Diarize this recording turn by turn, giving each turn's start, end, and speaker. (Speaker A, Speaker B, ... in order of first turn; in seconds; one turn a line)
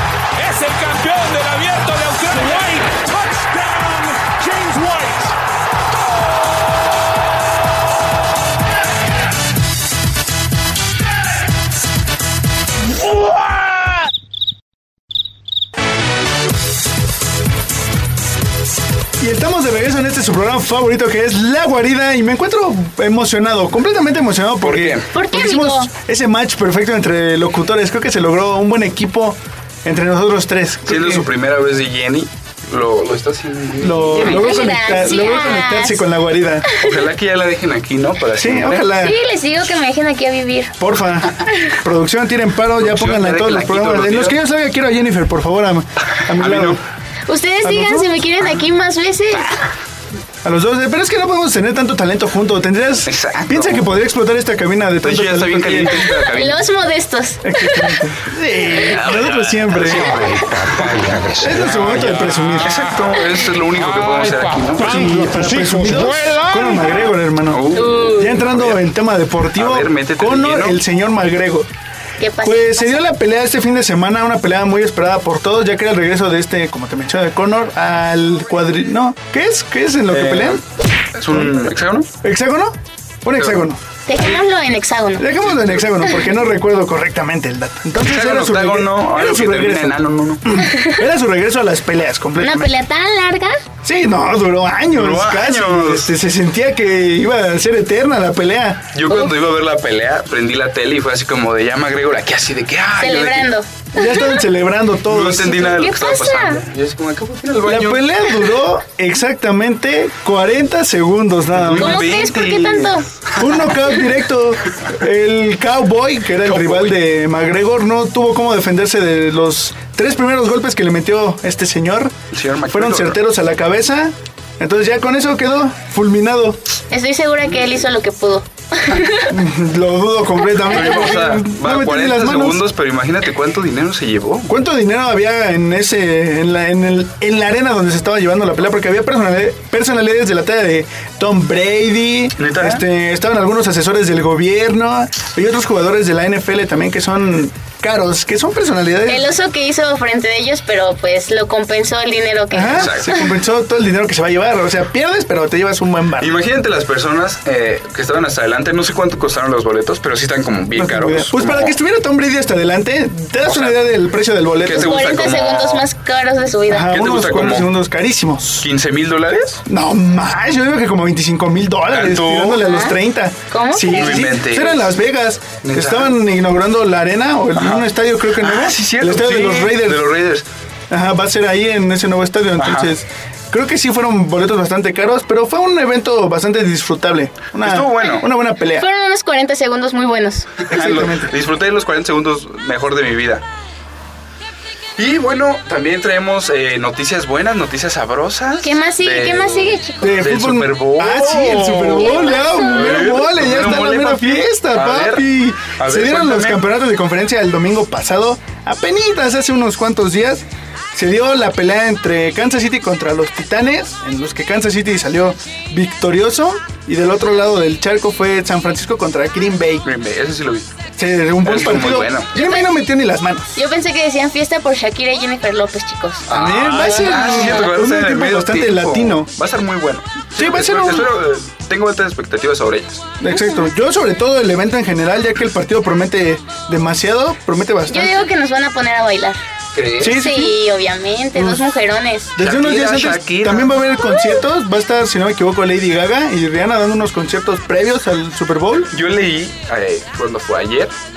Speaker A: 0.4-5.4
Speaker B: 19.2-31.3
Speaker C: 24.6-25.1
Speaker D: 25.1-25.9
Speaker C: 30.9-34.9
Speaker B: 33.8-36.7
Speaker D: 34.2-36.0
Speaker C: 36.8-38.9
Speaker B: 38.4-39.2
Speaker D: 39.0-40.8
Speaker B: 40.8-46.8
Speaker C: 42.8-44.4
Speaker C: 46.3-46.8
Speaker D: 47.3-49.6
Speaker B: 47.6-48.2
Speaker B: 50.4-56.1
Speaker C: 53.1-53.9
Speaker C: 55.0-56.7
Speaker D: 56.3-58.0
Speaker B: 57.4-60.4
Speaker C: 58.8-65.2
Speaker B: 61.4-62.8
Speaker B: 64.8-71.7
Speaker A: 64.9-66.9
Speaker C: 67.5-68.8
Speaker D: 67.8-68.3
Speaker C: 69.5-70.8
Speaker D: 72.2-73.1
Speaker B: 72.4-80.6
Speaker C: 80.1-80.6
Speaker C: 81.2-82.1
Speaker B: 81.3-83.8
Speaker D: 84.1-85.4
Speaker B: 85.2-92.7
Speaker C: 88.0-90.6
Speaker D: 92.4-93.6
Speaker B: 93.8-98.9
Speaker C: 95.0-96.1
Speaker C: 98.9-103.5
Speaker D: 103.0-104.4
Speaker B: 103.9-105.7
Speaker C: 105.1-108.4
Speaker D: 105.6-106.6
Speaker B: 107.7-112.1
Speaker C: 111.5-113.5
Speaker D: 111.8-113.1
Speaker B: 113.4-122.2
Speaker C: 116.5-117.0
Speaker C: 122.3-123.2
Speaker B: 122.7-126.6
Speaker D: 126.9-129.3
Speaker B: 129.3-132.6
Speaker C: 130.7-134.5
Speaker B: 134.5-149.3
Speaker C: 142.4-142.8
Speaker D: 149.1-153.2
Speaker B: 152.5-156.4
Speaker C: 152.7-153.1
Speaker C: 156.2-161.7
Speaker B: 160.8-165.1
Speaker C: 163.5-163.8
Speaker C: 164.6-165.8
Speaker D: 164.7-166.9
Speaker B: 166.7-168.7
Speaker C: 166.8-167.7
Speaker C: 168.6-169.6
Speaker B: 169.7-180.1
Speaker C: 171.9-172.6
Speaker D: 172.6-173.0
Speaker D: 173.5-174.2
Speaker C: 173.9-174.9
Speaker C: 175.6-176.2
Speaker C: 177.6-180.5
Speaker B: 180.9-188.9
Speaker C: 182.6-182.9
Speaker C: 187.6-188.2
Speaker D: 188.8-190.5
Speaker C: 190.7-193.4
Speaker B: 190.7-191.3
Speaker C: 195.0-206.6
Speaker D: 198.6-200.2
Speaker B: 200.0-219.9
Speaker D: 202.0-203.0
Speaker C: 219.8-220.7
Speaker B: 221.0-223.5
Speaker C: 221.4-222.3
Speaker D: 222.4-222.7
Speaker D: 223.6-227.7
Speaker C: 226.3-233.1
Speaker B: 226.3-229.3
Speaker B: 230.4-231.1
Speaker B: 233.2-238.2
Speaker D: 233.3-233.7
Speaker D: 237.9-239.4
Speaker C: 239.7-240.2
Speaker B: 240.0-240.6
Speaker D: 240.1-242.3
Speaker B: 241.3-241.6
Speaker B: 242.4-248.9
Speaker C: 242.4-243.8
Speaker D: 244.1-244.4
Speaker C: 248.9-250.9